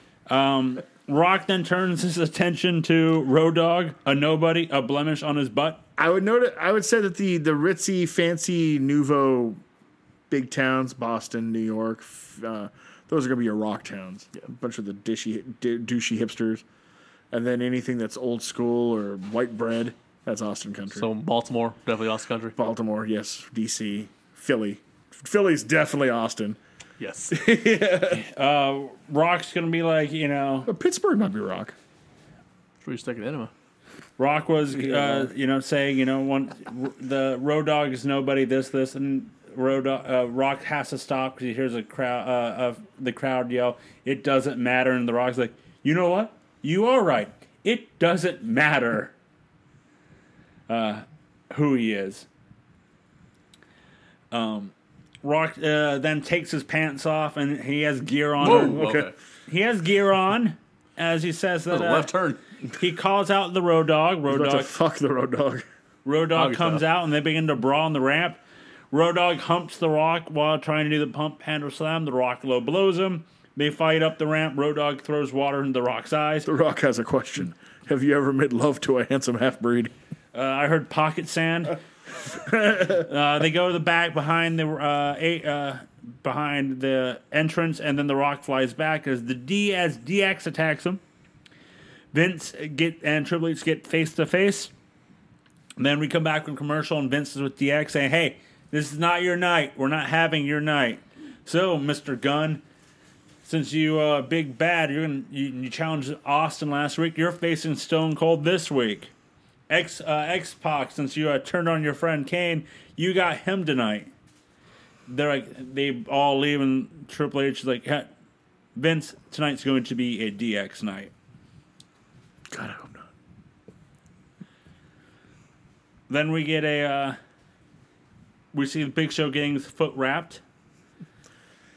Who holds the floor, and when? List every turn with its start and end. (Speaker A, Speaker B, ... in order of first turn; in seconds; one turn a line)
Speaker A: 0.3-5.8
Speaker B: 6.0-9.6
Speaker B: 10.3-16.6
Speaker B: 17.3-21.1
Speaker C: 20.9-22.6
Speaker B: 22.6-26.6
Speaker C: 27.0-27.4
Speaker B: 27.3-28.2
Speaker A: 28.1-30.7
Speaker B: 30.6-31.7
Speaker C: 32.8-33.5
Speaker A: 34.2-49.1
Speaker B: 34.7-35.3
Speaker A: 50.7-52.3
Speaker A: 54.3-58.9
Speaker C: 58.4-59.1
Speaker B: 58.4-59.1
Speaker A: 59.5-62.1
Speaker C: 61.7-62.4
Speaker A: 62.7-64.7
Speaker B: 64.3-65.6
Speaker A: 66.0-68.4
Speaker C: 66.3-66.8
Speaker A: 68.9-76.5
Speaker B: 76.5-79.9
Speaker A: 80.3-81.8
Speaker A: 82.5-91.0
Speaker A: 92.1-94.7
Speaker A: 95.8-102.6
Speaker A: 103.4-109.1
Speaker A: 109.7-114.1
Speaker A: 115.1-118.1
Speaker A: 118.8-121.1
Speaker B: 122.5-123.1
Speaker A: 126.1-127.2
Speaker A: 128.5-130.4